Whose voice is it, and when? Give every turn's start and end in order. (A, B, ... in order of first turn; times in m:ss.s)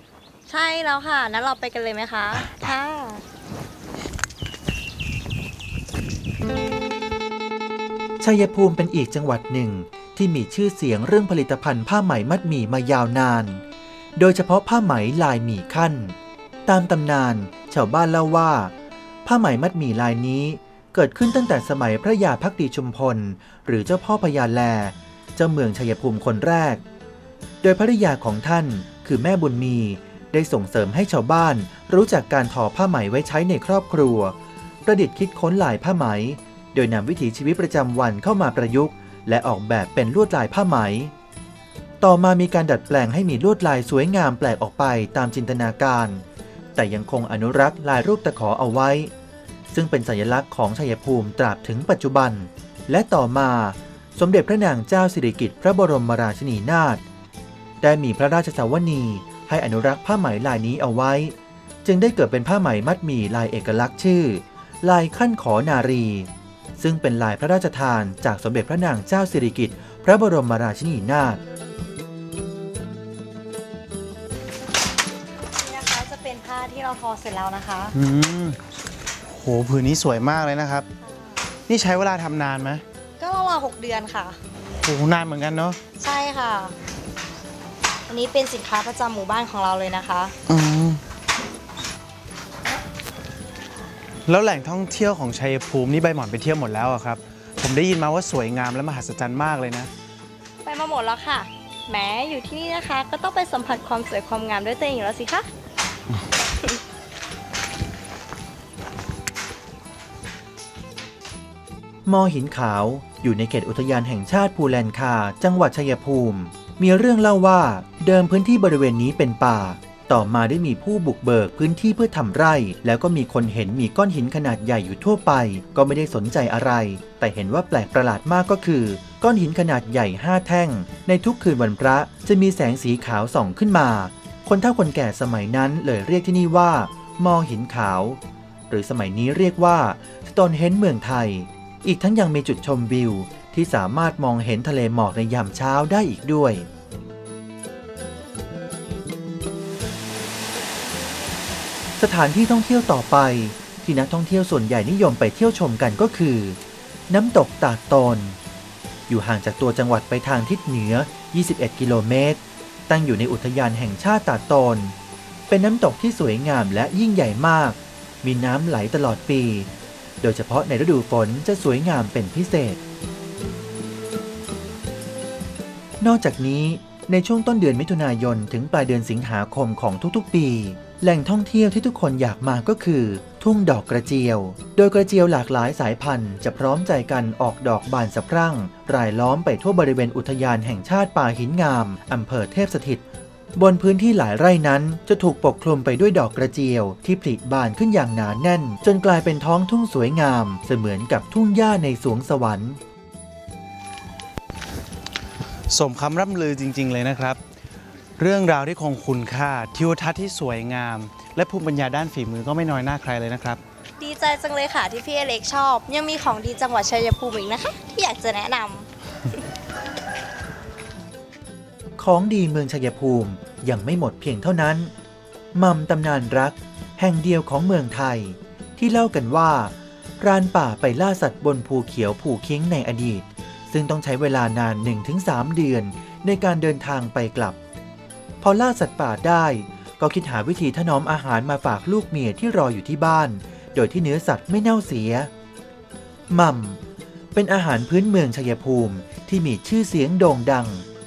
0:00.5-0:03.2 A
0:02.4-0:02.7 B
0:08.2-0:13.6 C
0:14.2-0:16.1 C
0:16.6-0:18.7 C
0:19.2-0:26.8 C
0:27.6-0:41.1 C
0:42.0-0:46.2 C
0:46.7-0:49.1 C
0:49.7-0:57.0 C
0:57.8-1:11.4 C
1:15.6-1:17.9 A
1:17.9-1:18.6 B
1:19.2-1:20.9 B
1:21.0-1:21.3 A
1:21.7-1:22.8 B
1:23.2-1:24.4 A
1:24.8-1:25.8 B
1:26.0-1:26.8 A
1:28.1-1:30.4 A
1:30.5-1:31.0 B
1:34.3-1:39.9 B
1:40.6-1:45.5 A
1:52.0-2:26.7 C
2:32.0-2:38.4 C
2:39.1-2:44.9 C
2:45.5-2:49.7 C
2:50.2-2:52.8 C
2:56.0-3:13.0 C
3:13.5-3:22.8 C
3:25.7-3:27.4 B
3:28.2-3:33.6 B
3:34.0-3:38.9 A
3:42.0-3:44.9 C
3:45.5-3:57.6 C
3:58.4-4:05.3 C
4:06.3-4:06.8 C
4:07.3-4:10.8 C